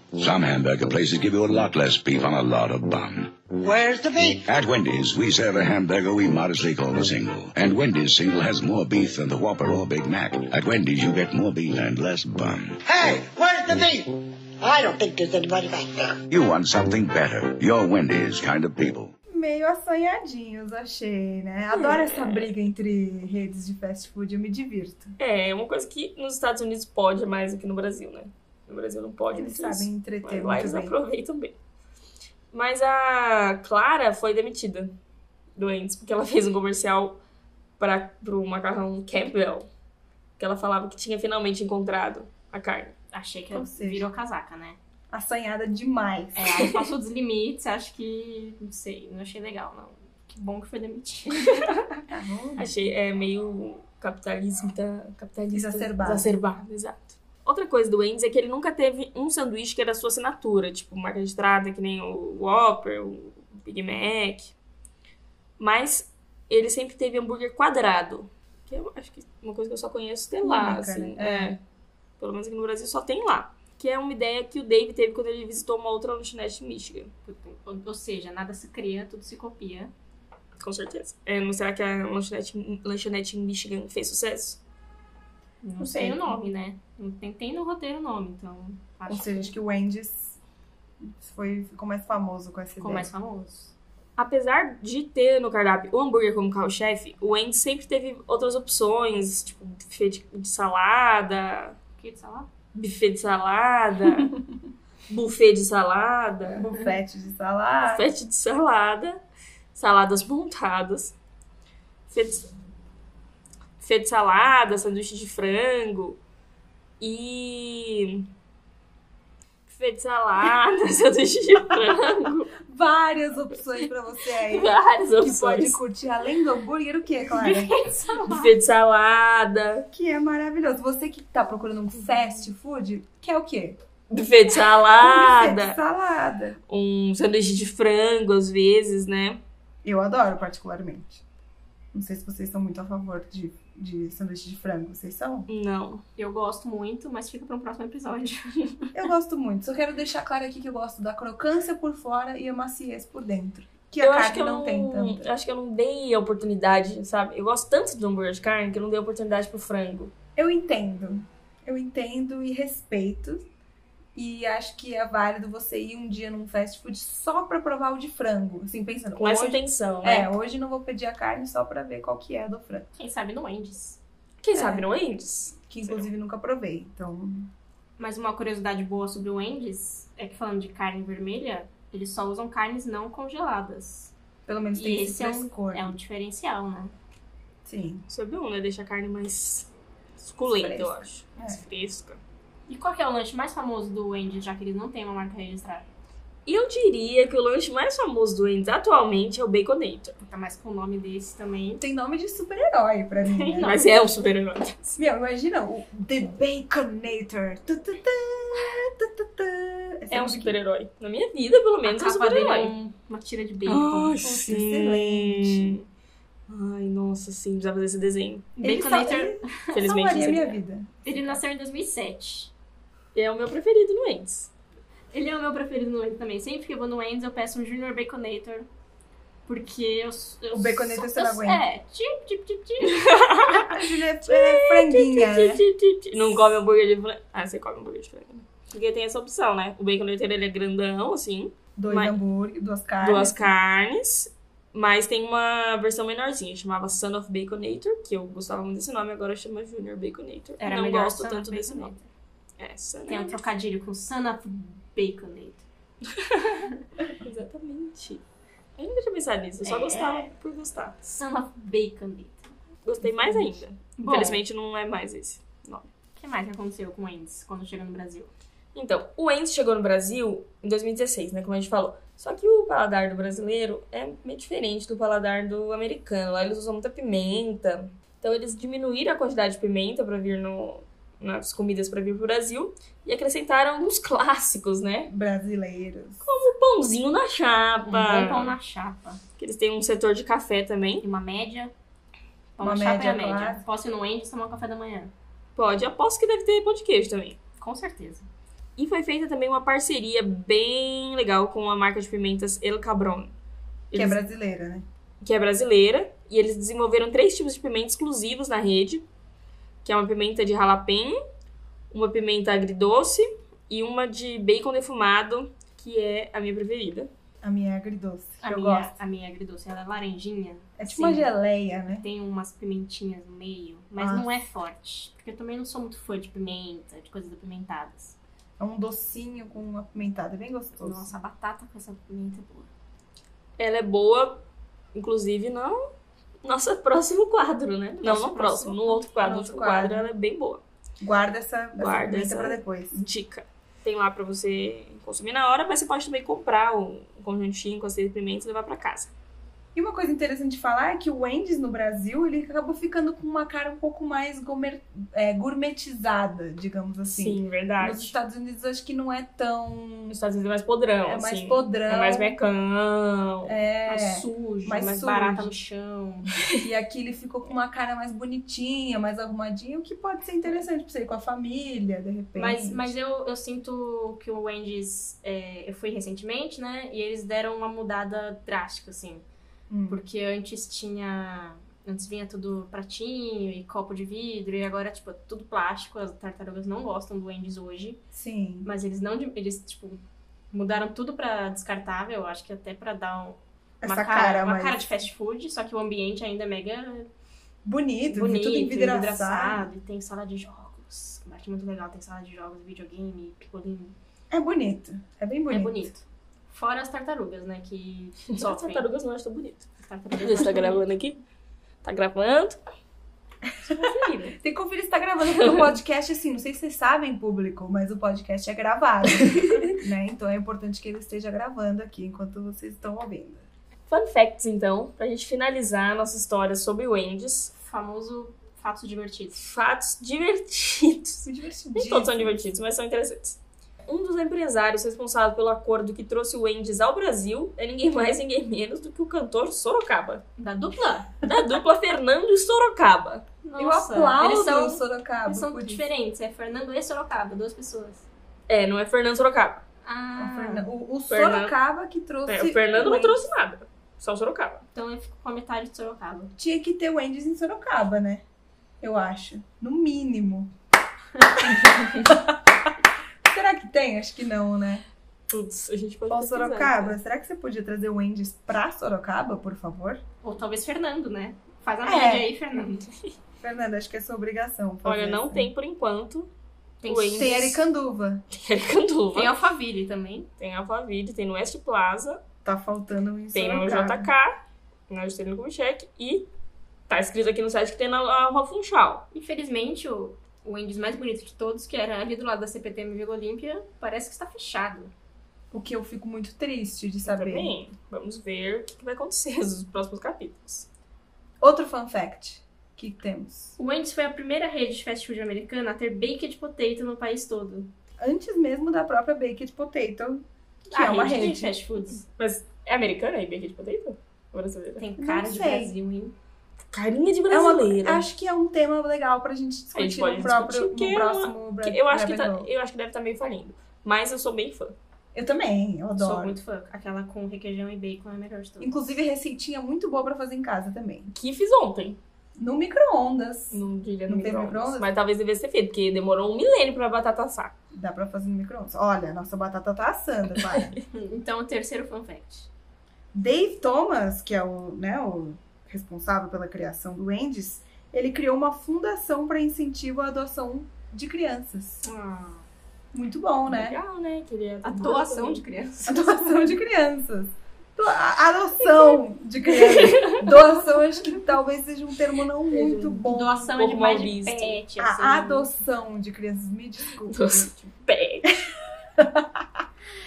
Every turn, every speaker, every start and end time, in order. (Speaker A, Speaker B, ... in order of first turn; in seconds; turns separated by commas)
Speaker A: 0.2-3.3, Speaker B: 3.6-4.5, Speaker A: 4.5-12.8, Speaker B: 12.8-16.2, Speaker A: 16.3-19.1, Speaker C: 19.3-25.1, Speaker D: 21.7-22.5, Speaker D: 25.2-31.6, Speaker C: 29.3-30.9, Speaker D: 32.5-35.0, Speaker D: 35.5-37.2, Speaker D: 37.8-39.7, Speaker D: 40.4-42.9, Speaker E: 43.1-44.8, Speaker C: 43.5-44.0, Speaker C: 45.1-46.6, Speaker E: 46.4-51.6, Speaker D: 51.4-51.8, Speaker C: 52.1-52.7, Speaker D: 52.6-64.5, Speaker C: 55.5-56.3, Speaker D: 65.6-71.6, Speaker C: 70.4-71.5, Speaker D: 72.2-77.1, Speaker E: 77.2-79.9, Speaker D: 80.6-84.6, Speaker E: 85.6-89.5, Speaker D: 85.8-86.4, Speaker C: 89.1-90.4, Speaker C: 91.0-93.1, Speaker E: 92.8-93.7, Speaker D: 94.2-101.8, Speaker E: 102.0-102.5, Speaker D: 102.7-104.3, Speaker D: 105.1-106.6, Speaker C: 106.5-108.0, Speaker D: 107.8-109.2, Speaker D: 109.7-111.1, Speaker D: 112.1-112.5, Speaker D: 113.8-116.2, Speaker D: 117.0-118.3, Speaker D: 119.7-122.5, Speaker C: 122.6-127.7, Speaker D: 124.5-125.8, Speaker E: 127.3-128.5, Speaker D: 128.3-129.9, Speaker C: 129.9-133.8, Speaker D: 134.1-135.8, Speaker C: 135.0-136.6, Speaker D: 136.7-139.4, Speaker C: 139.8-141.2, Speaker C: 141.9-145.5, Speaker D: 145.5-146.0, Speaker E: 146.2-148.9, Speaker C: 148.9-155.2, Speaker D: 154.0-160.1, Speaker C: 160.3-163.4, Speaker C: 164.1-172.9, Speaker D: 169.2-170.3, Speaker E: 172.9-174.0, Speaker D: 174.4-176.1, Speaker C: 174.5-174.9, Speaker C: 175.7-177.5, Speaker E: 178.0-184.1, Speaker C: 184.5-185.9, Speaker E: 184.7-186.9, Speaker C: 187.6-188.0, Speaker D: 188.1-192.2, Speaker C: 190.5-191.6, Speaker E: 192.7-195.9, Speaker D: 196.4-200.2, Speaker E: 200.3-201.8, Speaker C: 201.8-203.7, Speaker E: 203.5-203.8, Speaker D: 203.6-205.0, Speaker C: 205.0-210.6, Speaker D: 210.1-212.7, Speaker E: 211.8-214.2, Speaker D: 213.7-215.8, Speaker C: 214.2-215.8, Speaker D: 216.5-218.6, Speaker E: 218.6-219.9, Speaker C: 218.6-221.4, Speaker D: 219.7-220.6, Speaker E: 221.0-222.5, Speaker D: 223.1-224.5, Speaker E: 225.1-228.7, Speaker E: 229.5-233.2, Speaker C: 230.5-231.6, Speaker D: 232.9-242.2, Speaker C: 233.5-235.6, Speaker C: 241.8-243.4, Speaker D: 243.0-251.9, Speaker E: 250.6-252.1, Speaker D: 252.6-253.4, Speaker E: 253.1-255.7, Speaker D: 256.1-256.7, Speaker D: 257.2-258.2, Speaker D: 258.8-261.2, Speaker E: 259.6-260.3, Speaker E: 261.2-262.5, Speaker D: 262.8-265.9, Speaker E: 264.0-264.4, Speaker E: 266.2-268.3, Speaker D: 268.7-285.1, Speaker C: 285.1-286.3, Speaker D: 286.2-288.6, Speaker E: 287.8-289.2, Speaker D: 289.4-291.0, Speaker E: 291.0-291.7, Speaker E: 292.6-295.1, Speaker C: 292.6-293.6, Speaker D: 295.6-297.4, Speaker E: 297.6-298.3, Speaker D: 298.8-303.3, Speaker D: 303.9-304.2, Speaker C: 303.9-304.8, Speaker D: 305.2-309.1, Speaker D: 309.8-311.2, Speaker D: 311.9-317.1, Speaker C: 317.4-318.9, Speaker E: 318.4-321.3, Speaker C: 320.8-322.1, Speaker E: 322.0-328.1, Speaker C: 324.0-324.3, Speaker C: 328.6-331.1, Speaker E: 330.8-332.7, Speaker D: 333.6-334.4, Speaker D: 334.9-335.8, Speaker D: 336.4-340.6, Speaker E: 338.0-339.1, Speaker C: 339.2-340.1, Speaker C: 341.0-343.0, Speaker D: 341.8-349.1, Speaker C: 349.7-360.2, Speaker D: 357.1-358.1, Speaker D: 360.1-363.5, Speaker C: 361.0-362.3, Speaker C: 363.4-365.5, Speaker E: 363.9-366.3, Speaker C: 366.6-372.9, Speaker E: 372.4-379.2, Speaker C: 379.7-380.0, Speaker E: 379.9-388.0, Speaker C: 388.1-388.7, Speaker E: 388.6-390.0, Speaker E: 390.5-397.1, Speaker C: 393.8-394.9, Speaker C: 397.6-399.7, Speaker E: 398.1-403.9, Speaker C: 404.3-405.9, Speaker E: 405.5-408.9, Speaker D: 408.3-409.7, Speaker E: 409.8-410.8, Speaker D: 410.2-411.2, Speaker D: 411.8-412.6, Speaker E: 413.6-414.3, Speaker C: 414.4-423.5, Speaker D: 415.4-415.7, Speaker D: 419.2-419.8, Speaker D: 423.9-427.5, Speaker E: 427.5-429.5, Speaker D: 429.3-440.2, Speaker C: 431.2-432.4, Speaker E: 440.4-441.1, Speaker D: 441.2-443.2, Speaker E: 443.4-448.1, Speaker C: 443.6-445.9, Speaker D: 448.5-449.6, Speaker E: 449.8-450.7, Speaker C: 450.2-453.2, Speaker D: 451.1-451.5, Speaker D: 452.2-454.6, Speaker E: 454.7-456.3, Speaker C: 456.4-458.2, Speaker C: 458.8-460.5, Speaker C: 462.0-462.7, Speaker C: 463.2-464.8, Speaker D: 465.3-467.0, Speaker C: 466.1-470.0, Speaker E: 470.2-472.9, Speaker C: 471.8-472.3, Speaker D: 472.8-473.1, Speaker C: 473.4-475.5, Speaker D: 474.8-476.3, Speaker E: 476.8-477.6, Speaker D: 476.8-477.5, Speaker C: 477.1-478.2, Speaker D: 478.3-479.3, Speaker E: 479.1-480.3, Speaker D: 480.4-482.2, Speaker C: 482.4-484.1, Speaker D: 483.3-486.3, Speaker D: 486.9-489.1, Speaker E: 489.1-494.9, Speaker C: 495.5-497.5, Speaker D: 497.1-500.7, Speaker C: 501.4-503.6, Speaker E: 503.6-507.7, Speaker C: 508.0-511.5, Speaker E: 510.7-512.0, Speaker D: 512.2-514.8, Speaker E: 514.8-516.1, Speaker C: 515.0-515.7, Speaker D: 516.7-518.0, Speaker C: 517.3-522.5, Speaker D: 519.7-524.8, Speaker C: 525.1-526.4, Speaker E: 526.0-528.9, Speaker C: 528.6-531.1, Speaker D: 531.1-532.0, Speaker C: 532.4-534.9, Speaker D: 533.5-537.5, Speaker C: 537.7-540.7, Speaker E: 540.9-542.5, Speaker C: 543.1-551.8, Speaker E: 551.8-552.5, Speaker C: 552.9-553.8, Speaker D: 553.5-555.4, Speaker E: 554.6-556.6, Speaker C: 555.9-563.4, Speaker D: 559.8-560.2, Speaker D: 562.5-564.6, Speaker E: 563.1-565.5, Speaker C: 564.8-567.5, Speaker D: 567.1-568.3, Speaker C: 569.0-569.6